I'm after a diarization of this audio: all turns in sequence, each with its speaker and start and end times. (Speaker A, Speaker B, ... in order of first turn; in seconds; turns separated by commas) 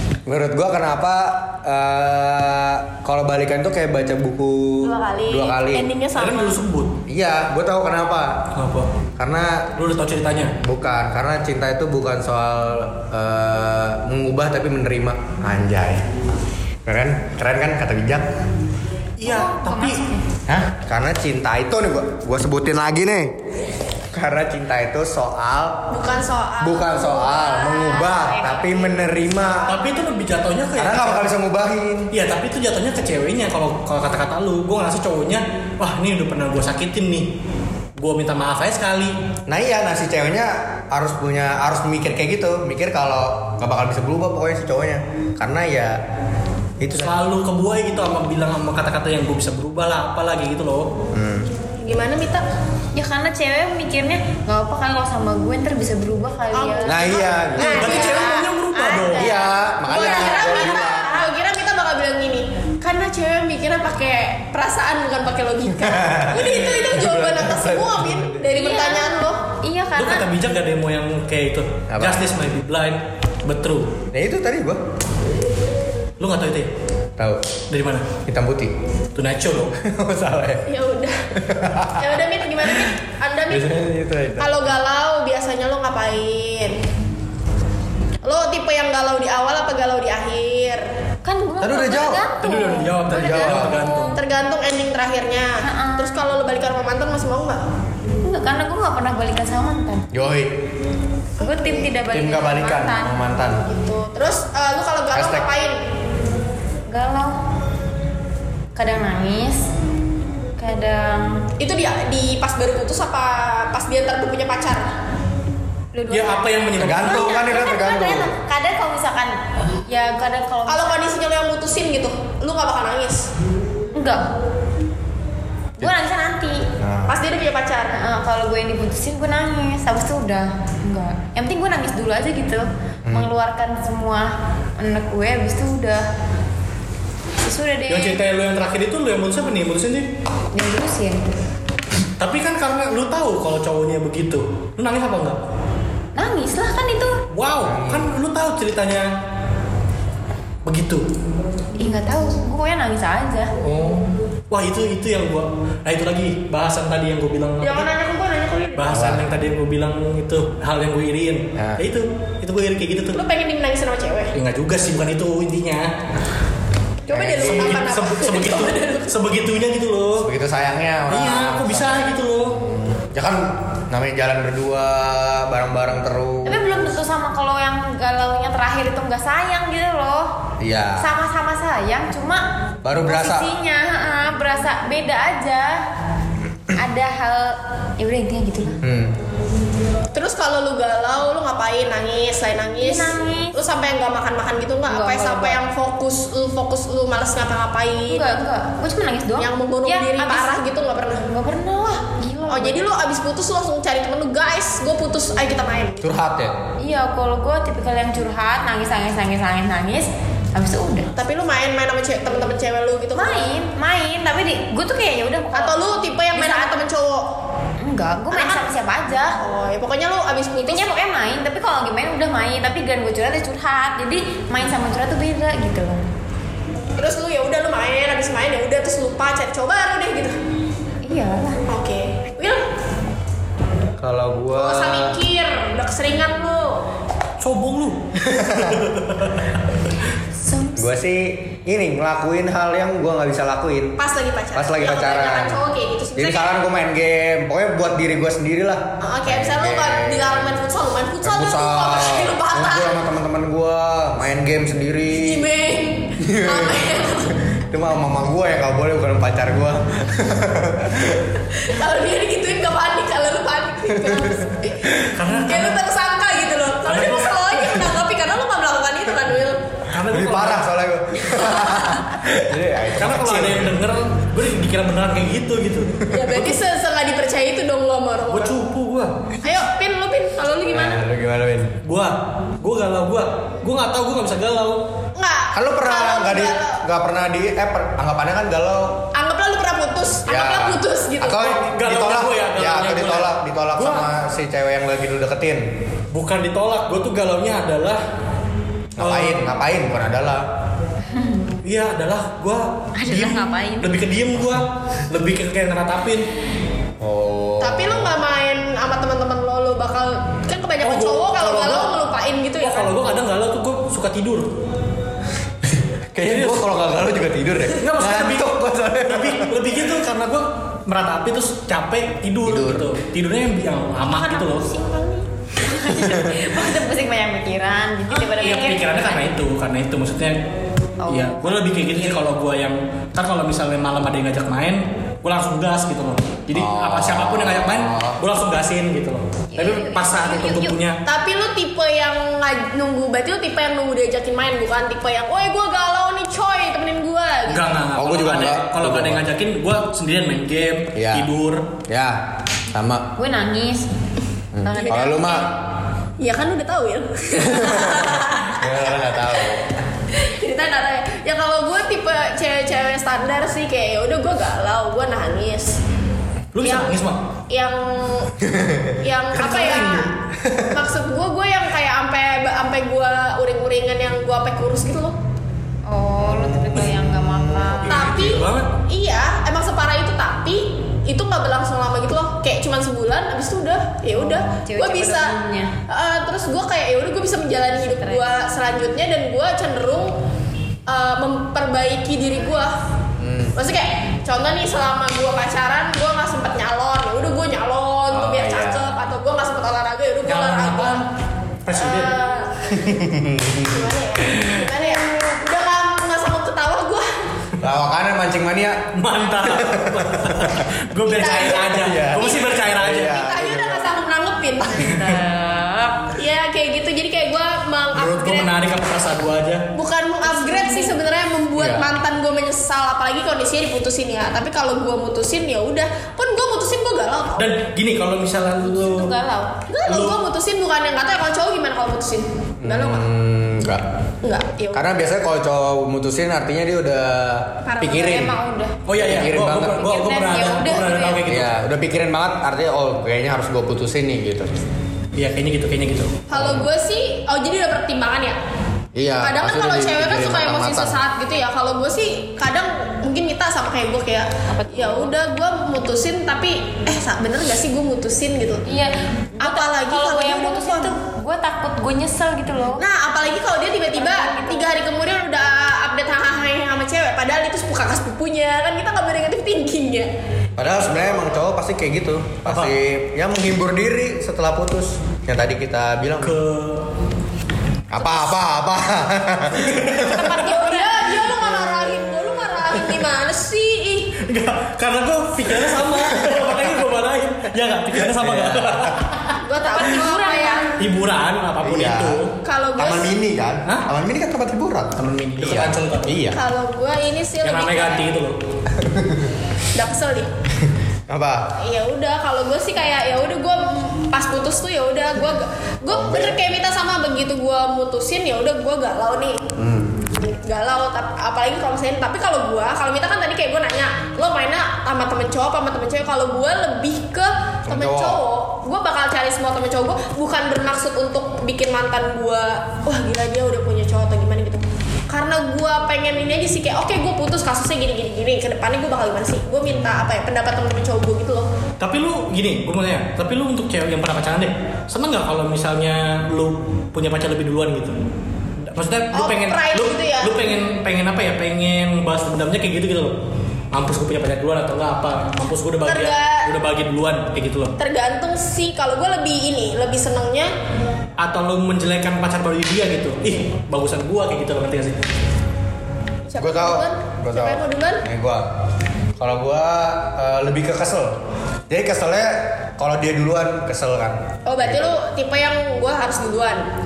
Speaker A: 0.2-5.9, Speaker B: 4.8-6.6, Speaker C: 6.1-7.0, Speaker A: 7.1-8.4, Speaker C: 8.5-8.9, Speaker A: 9.2-9.7, Speaker C: 9.8-10.6, Speaker A: 10.6-16.0, Speaker A: 16.9-18.2, Speaker C: 19.2-20.0, Speaker D: 19.2-20.2, Speaker A: 20.5-23.3, Speaker A: 24.1-25.8, Speaker B: 25.9-28.3, Speaker A: 26.6-29.7, Speaker D: 27.6-28.9, Speaker B: 29.4-30.0, Speaker C: 29.6-31.3, Speaker A: 30.8-32.1, Speaker C: 32.1-37.3, Speaker C: 38.0-39.1, Speaker A: 39.5-46.0, Speaker A: 46.8-47.2, Speaker C: 46.9-50.9, Speaker A: 51.1-51.5, Speaker B: 51.8-52.4, Speaker D: 52.9-61.1, Speaker B: 56.5-58.4, Speaker A: 56.8-58.1, Speaker C: 57.6-59.3, Speaker A: 59.1-61.1, Speaker B: 59.9-69.4, Speaker A: 65.8-68.5, Speaker D: 68.5-70.3, Speaker C: 70.0-74.0, Speaker A: 71.9-72.2, Speaker A: 74.1-74.8, Speaker C: 76.2-76.7, Speaker A: 77.2-77.4, Speaker C: 77.7-78.1, Speaker A: 78.2-78.7, Speaker C: 79.1-79.7, Speaker A: 79.8-80.6, Speaker B: 80.7-81.2, Speaker A: 81.3-82.2, Speaker B: 82.0-83.7, Speaker A: 83.5-84.6, Speaker B: 84.4-86.8, Speaker B: 88.2-90.8, Speaker D: 91.2-94.2, Speaker A: 91.6-92.2, Speaker C: 92.4-94.2, Speaker A: 93.1-93.7, Speaker B: 94.1-97.6, Speaker D: 95.6-96.2, Speaker D: 98.2-100.0, Speaker A: 100.1-100.5, Speaker B: 101.4-101.9, Speaker D: 101.4-103.1, Speaker A: 102.1-103.6, Speaker B: 103.6-105.8, Speaker A: 105.1-105.5, Speaker D: 106.9-107.4, Speaker D: 108.8-109.6, Speaker D: 110.6-111.5, Speaker B: 111.6-114.9, Speaker D: 115.9-121.0, Speaker C: 116.1-117.3, Speaker A: 116.8-118.3, Speaker B: 120.7-123.3, Speaker D: 123.9-124.2, Speaker D: 125.8-126.7, Speaker A: 126.8-127.2, Speaker B: 127.1-128.0, Speaker D: 127.9-136.0, Speaker A: 133.1-133.3, Speaker D: 137.4-138.2, Speaker C: 137.9-140.1, Speaker D: 140.5-141.3, Speaker C: 142.2-145.4, Speaker D: 146.2-147.2, Speaker C: 147.3-149.1, Speaker A: 147.6-148.1, Speaker C: 150.6-151.0, Speaker D: 151.8-153.5, Speaker C: 153.6-157.9, Speaker B: 157.6-159.0, Speaker C: 158.8-163.2, Speaker A: 158.9-159.2, Speaker A: 161.6-161.8, Speaker B: 163.1-164.3, Speaker C: 164.3-165.9, Speaker B: 167.1-169.1, Speaker A: 167.1-167.8, Speaker C: 167.3-170.3, Speaker A: 170.2-172.1, Speaker C: 171.1-172.6, Speaker A: 172.6-176.6, Speaker D: 176.4-180.3, Speaker A: 180.6-181.1, Speaker D: 181.0-182.4, Speaker A: 182.8-183.5, Speaker D: 183.0-185.8, Speaker D: 186.7-188.8, Speaker A: 188.8-189.1, Speaker B: 190.1-198.3, Speaker D: 192.8-193.6, Speaker D: 194.9-195.6, Speaker D: 198.1-200.6, Speaker B: 199.4-201.2, Speaker D: 201.2-202.8, Speaker B: 202.5-206.1, Speaker A: 206.0-206.6, Speaker D: 206.8-211.1, Speaker B: 211.2-213.5, Speaker D: 213.1-216.7, Speaker B: 215.5-217.2, Speaker D: 217.8-219.4, Speaker B: 218.3-218.7, Speaker B: 219.4-220.9, Speaker D: 220.6-226.0, Speaker B: 227.0-230.3, Speaker D: 231.0-231.6, Speaker B: 231.7-232.6, Speaker A: 234.0-235.2, Speaker B: 234.5-236.8, Speaker C: 237.4-238.0, Speaker A: 238.2-238.8, Speaker C: 238.6-239.4, Speaker D: 240.4-240.8, Speaker A: 240.8-244.0, Speaker B: 244.0-246.5, Speaker A: 244.5-245.6, Speaker A: 246.1-250.6, Speaker B: 249.0-252.9, Speaker A: 251.2-255.5, Speaker B: 255.1-257.4, Speaker A: 256.2-256.9, Speaker A: 257.5-261.4, Speaker B: 261.6-269.6, Speaker A: 263.9-264.4, Speaker C: 265.1-265.8, Speaker C: 266.9-267.8, Speaker C: 269.9-270.6, Speaker A: 270.1-273.8, Speaker B: 271.3-272.0, Speaker C: 272.9-276.0, Speaker B: 276.1-278.6, Speaker A: 276.1-276.5, Speaker C: 278.3-279.1, Speaker B: 279.4-281.0, Speaker A: 280.7-281.8, Speaker C: 281.8-284.8, Speaker B: 285.1-286.8, Speaker A: 285.5-289.0, Speaker B: 289.1-291.5, Speaker A: 290.2-295.6, Speaker C: 291.4-294.1, Speaker C: 296.1-298.0, Speaker A: 299.0-300.4, Speaker C: 299.0-299.5, Speaker D: 301.1-301.4, Speaker C: 301.6-306.2, Speaker D: 302.9-303.9, Speaker A: 307.0-308.1, Speaker B: 307.6-313.0, Speaker C: 310.8-311.9, Speaker C: 312.6-314.5, Speaker A: 315.6-319.6, Speaker C: 316.2-316.7, Speaker C: 317.8-318.5, Speaker C: 319.0-324.7, Speaker A: 322.4-322.9, Speaker B: 324.1-325.2, Speaker D: 325.6-329.2, Speaker A: 325.9-326.4, Speaker C: 328.1-330.4, Speaker D: 331.0-331.6, Speaker C: 331.1-341.0, Speaker A: 336.5-338.2, Speaker D: 339.5-340.8, Speaker B: 341.1-347.7, Speaker C: 347.5-351.7, Speaker A: 347.9-349.2, Speaker A: 350.9-351.3, Speaker A: 351.9-352.2, Speaker A: 352.7-353.1, Speaker D: 353.2-353.9, Speaker A: 354.5-355.5, Speaker D: 354.6-355.3, Speaker B: 354.8-355.5, Speaker B: 356.2-359.6, Speaker A: 357.4-359.7, Speaker B: 360.1-365.8, Speaker C: 366.5-367.2, Speaker B: 366.6-367.0, Speaker B: 367.5-368.3, Speaker A: 368.5-369.0, Speaker B: 369.0-370.1, Speaker C: 369.3-370.1, Speaker A: 370.5-370.7, Speaker B: 370.7-375.1, Speaker D: 375.9-378.1, Speaker A: 376.2-378.3, Speaker C: 377.8-378.7, Speaker B: 377.9-385.4, Speaker D: 384.1-385.7, Speaker B: 385.9-390.1, Speaker D: 388.0-388.3, Speaker B: 390.9-392.8, Speaker A: 393.2-393.5, Speaker B: 393.5-401.0, Speaker A: 398.1-398.9, Speaker C: 400.2-401.1, Speaker C: 401.6-402.1, Speaker B: 401.7-402.7, Speaker A: 402.7-403.9, Speaker B: 403.6-407.1, Speaker C: 404.3-404.6, Speaker A: 407.6-408.9, Speaker C: 408.9-413.1, Speaker A: 409.4-410.7, Speaker B: 411.0-415.0, Speaker A: 411.7-413.9, Speaker D: 414.7-416.1, Speaker B: 416.1-418.5, Speaker C: 417.9-419.6, Speaker B: 419.7-427.5, Speaker D: 420.2-421.0, Speaker A: 421.6-421.9, Speaker C: 427.4-429.1, Speaker D: 428.6-429.6, Speaker B: 429.7-433.1, Speaker C: 429.9-430.2, Speaker A: 432.6-433.8, Speaker B: 434.2-434.9, Speaker A: 434.7-438.3, Speaker B: 437.6-438.3, Speaker D: 437.9-438.8, Speaker C: 438.9-441.5, Speaker A: 438.9-439.9, Speaker D: 439.6-441.2, Speaker A: 441.2-444.5, Speaker C: 445.1-446.2, Speaker B: 446.3-448.4, Speaker A: 446.3-446.7, Speaker A: 448.9-451.0, Speaker B: 449.2-458.6, Speaker D: 454.5-455.1, Speaker D: 458.6-462.8, Speaker B: 459.4-460.9, Speaker B: 462.8-470.1, Speaker D: 463.9-464.7, Speaker A: 470.6-476.4, Speaker C: 472.4-472.7, Speaker C: 476.2-476.8, Speaker A: 477.9-480.3, Speaker C: 479.6-480.2, Speaker B: 480.0-484.1, Speaker D: 480.5-480.9, Speaker C: 484.2-489.4, Speaker A: 486.1-486.5, Speaker A: 488.1-489.0, Speaker B: 489.4-490.8, Speaker D: 489.6-490.8, Speaker C: 490.8-492.3, Speaker A: 491.6-492.2, Speaker B: 492.4-493.1, Speaker A: 492.8-496.4, Speaker C: 495.0-496.1, Speaker B: 496.3-498.1, Speaker C: 497.4-498.4, Speaker A: 498.7-499.3, Speaker B: 499.7-500.3, Speaker A: 501.1-501.5, Speaker B: 501.6-509.4, Speaker A: 505.9-506.4, Speaker A: 509.6-510.0, Speaker B: 510.2-531.5, Speaker A: 517.7-518.2, Speaker C: 531.8-538.0, Speaker C: 538.7-543.1, Speaker B: 539.1-540.4, Speaker C: 543.7-547.8, Speaker B: 545.9-546.5, Speaker B: 547.8-550.5, Speaker C: 551.2-555.0, Speaker B: 556.3-558.0, Speaker A: 556.4-558.5, Speaker A: 559.2-561.1, Speaker A: 561.7-565.0, Speaker B: 564.5-566.6